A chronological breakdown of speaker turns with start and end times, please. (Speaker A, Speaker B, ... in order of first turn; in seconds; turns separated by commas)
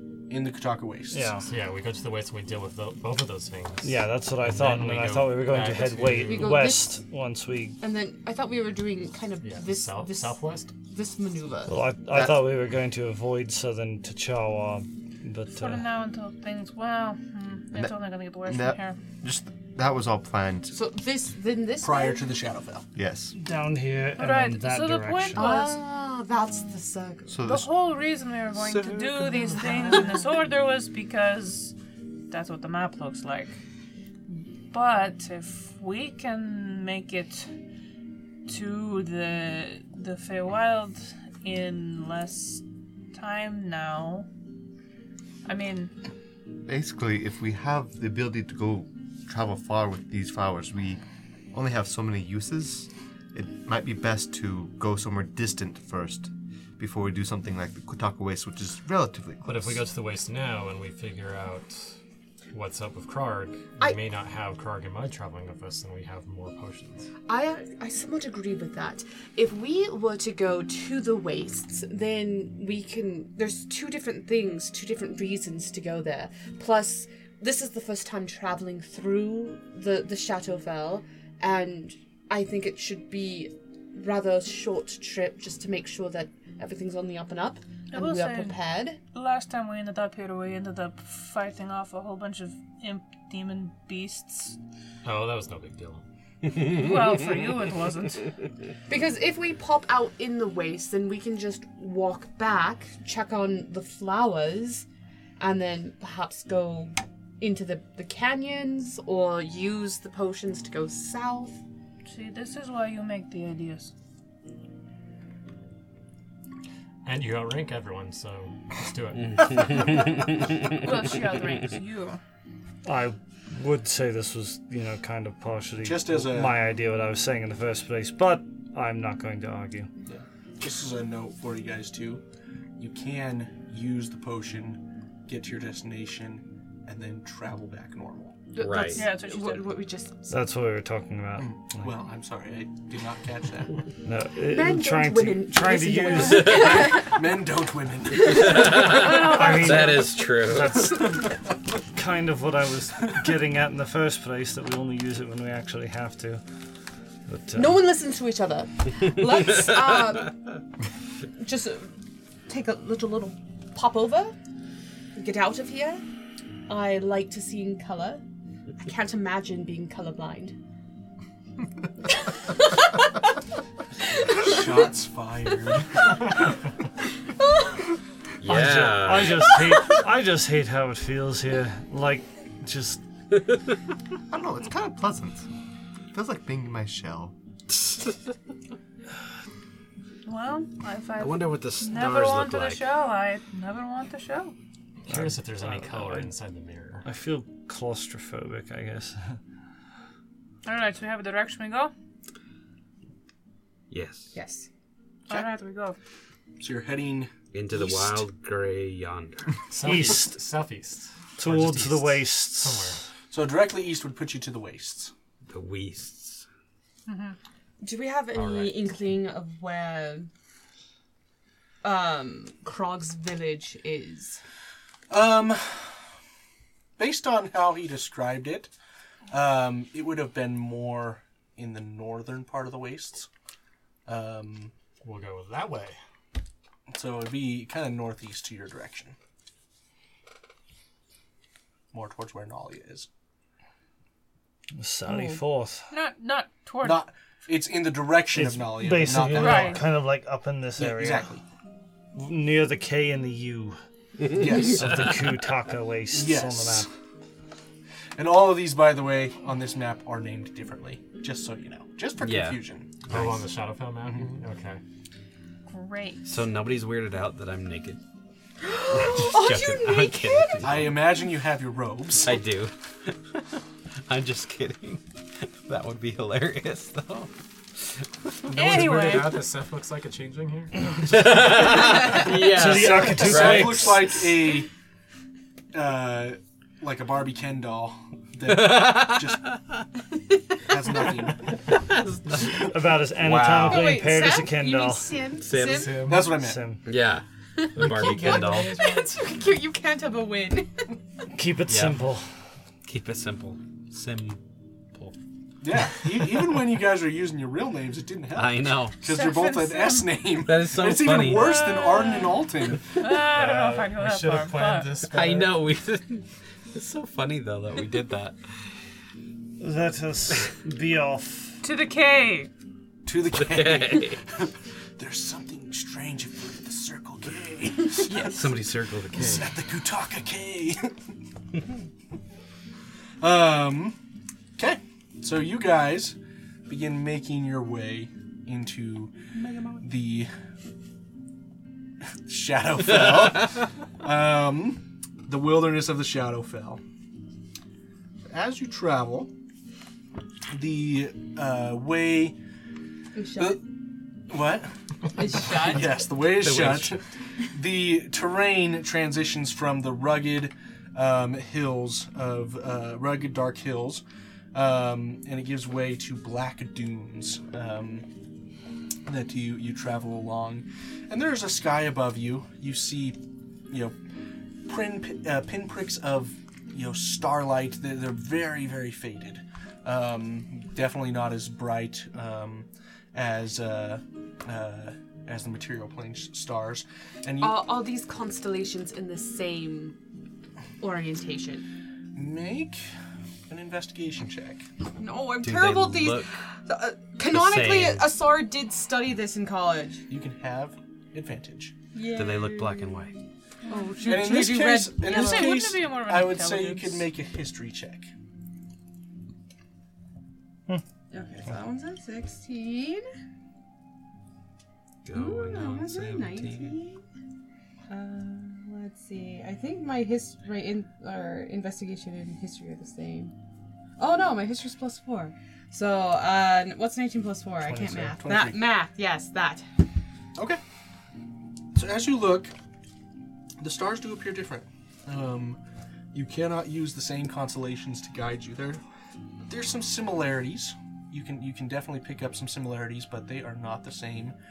Speaker A: 0.3-1.3, Speaker B: 1.1-1.5, Speaker C: 1.4-6.7, Speaker B: 3.8-7.8, Speaker D: 6.3-7.0, Speaker D: 7.8-11.8, Speaker C: 9.4-10.7, Speaker B: 11.7-15.9, Speaker A: 12.1-12.4, Speaker E: 15.5-19.0, Speaker F: 17.7-20.8, Speaker D: 20.7-22.2, Speaker A: 21.8-22.9, Speaker F: 22.9-23.4, Speaker B: 23.3-25.6, Speaker E: 24.2-25.9, Speaker D: 25.4-27.4, Speaker F: 27.3-27.7, Speaker E: 27.4-31.8, Speaker A: 28.6-29.1, Speaker D: 29.1-30.2, Speaker E: 32.3-33.5, Speaker E: 34.3-37.5, Speaker E: 38.5-44.3, Speaker E: 45.5-45.9, Speaker F: 46.6-51.0, Speaker F: 51.5-59.9, Speaker C: 59.5-62.0, Speaker C: 62.5-67.1, Speaker D: 67.3-89.0, Speaker E: 87.9-88.6, Speaker E: 89.1-94.6, Speaker C: 95.0-96.0, Speaker E: 96.5-98.3, Speaker D: 98.9-104.9, Speaker D: 105.4-111.6, Speaker E: 112.1-113.9, Speaker C: 117.0-119.9, Speaker G: 119.5-120.0, Speaker E: 120.8-122.2, Speaker B: 122.8-129.9, Speaker A: 125.8-126.6, Speaker A: 130.1-132.2, Speaker A: 132.8-138.4, Speaker D: 138.5-140.4, Speaker G: 138.6-139.1, Speaker E: 138.9-139.8, Speaker B: 140.3-142.0, Speaker A: 141.4-143.8, Speaker B: 144.0-147.0, Speaker D: 144.4-147.2, Speaker A: 146.8-148.7, Speaker G: 148.4-151.0, Speaker D: 148.5-148.8, Speaker B: 148.8-151.3, Speaker E: 148.9-150.1, Speaker B: 151.9-156.4, Speaker B: 157.3-157.8, Speaker D: 157.5-160.6, Speaker D: 161.4-164.3, Speaker D: 165.2-166.0, Speaker D: 166.7-168.2, Speaker D: 168.8-170.6, Speaker A: 174.3-176.2, Speaker G: 178.4-179.6, Speaker B: 178.4-183.0, Speaker F: 184.3-185.5, Speaker F: 186.1-187.3, Speaker E: 190.3-194.6, Speaker G: 191.2-192.9, Speaker C: 195.1-197.1, Speaker B: 195.1-196.3, Speaker B: 197.0-199.4, Speaker E: 200.7-201.9, Speaker G: 203.9-204.3, Speaker D: 204.3-204.7, Speaker E: 205.3-206.0, Speaker A: 206.6-208.3, Speaker G: 207.5-209.6, Speaker C: 209.7-213.0, Speaker B: 209.8-210.4, Speaker B: 211.4-213.0, Speaker A: 213.3-215.1, Speaker G: 215.5-216.5, Speaker E: 217.1-217.4, Speaker D: 217.8-220.3, Speaker C: 218.3-218.8, Speaker D: 221.8-224.4, Speaker A: 225.1-226.0, Speaker A: 227.0-228.7, Speaker A: 229.3-233.3, Speaker A: 234.1-234.7, Speaker C: 235.0-236.0, Speaker A: 236.9-239.2, Speaker A: 241.9-243.1, Speaker B: 244.8-245.9, Speaker D: 245.1-245.4, Speaker E: 245.9-247.1, Speaker A: 246.8-249.8, Speaker B: 248.3-251.3, Speaker E: 249.3-249.9, Speaker A: 250.8-251.4, Speaker B: 252.2-253.8, Speaker B: 254.3-256.9, Speaker A: 254.3-255.2, Speaker A: 256.1-256.9, Speaker A: 258.2-263.0, Speaker G: 262.2-263.4, Speaker C: 263.1-264.8, Speaker E: 265.7-266.3, Speaker G: 266.2-268.0, Speaker D: 268.6-270.8, Speaker G: 268.9-270.9, Speaker A: 270.6-272.4, Speaker G: 272.2-273.4, Speaker G: 274.1-277.3, Speaker E: 278.5-279.4, Speaker C: 278.5-282.3, Speaker G: 281.1-284.1, Speaker B: 282.4-284.2, Speaker A: 282.9-284.7, Speaker A: 285.7-289.5, Speaker G: 288.5-289.6, Speaker A: 290.7-291.6, Speaker G: 291.8-292.5, Speaker B: 292.4-295.2, Speaker C: 293.3-293.6, Speaker D: 293.6-296.1, Speaker G: 295.4-296.1, Speaker C: 295.6-296.3, Speaker A: 296.1-296.6, Speaker B: 296.3-296.9, Speaker G: 296.9-298.8, Speaker D: 297.6-300.9, Speaker C: 297.8-298.8, Speaker B: 301.3-302.3, Speaker G: 301.7-302.0, Speaker G: 302.9-304.4, Speaker A: 305.6-312.9, Speaker G: 308.4-309.0, Speaker E: 309.0-310.2, Speaker G: 310.4-311.6, Speaker E: 311.2-315.0, Speaker C: 313.1-315.6, Speaker G: 315.1-318.4, Speaker B: 319.6-321.6, Speaker E: 321.6-322.5, Speaker A: 323.1-328.1, Speaker G: 323.4-324.2, Speaker G: 328.1-329.5, Speaker D: 328.1-328.4, Speaker A: 329.1-331.0, Speaker A: 333.2-334.0, Speaker A: 334.6-336.2, Speaker A: 336.7-339.1, Speaker D: 339.4-339.8, Speaker A: 339.8-340.3, Speaker A: 342.3-346.8, Speaker A: 348.3-349.3, Speaker A: 350.5-352.4, Speaker D: 353.1-353.6, Speaker A: 353.4-353.7, Speaker A: 354.3-368.1, Speaker D: 355.1-356.0, Speaker G: 356.4-357.0, Speaker A: 369.1-374.0, Speaker A: 374.7-387.6, Speaker D: 387.4-390.0, Speaker D: 390.8-391.6, Speaker A: 392.1-392.9, Speaker A: 393.5-394.7, Speaker D: 395.0-400.1, Speaker G: 395.4-396.3, Speaker G: 397.2-398.2, Speaker A: 400.1-401.7, Speaker D: 401.9-403.0, Speaker G: 402.1-403.1, Speaker E: 403.7-407.1, Speaker D: 403.7-405.6, Speaker A: 404.0-408.1, Speaker D: 411.1-413.1, Speaker G: 415.1-416.8, Speaker D: 415.1-417.0, Speaker D: 417.9-423.3, Speaker D: 424.0-429.7, Speaker A: 427.8-428.6, Speaker A: 431.8-432.6, Speaker A: 433.6-435.6, Speaker A: 436.1-438.8, Speaker A: 439.5-444.4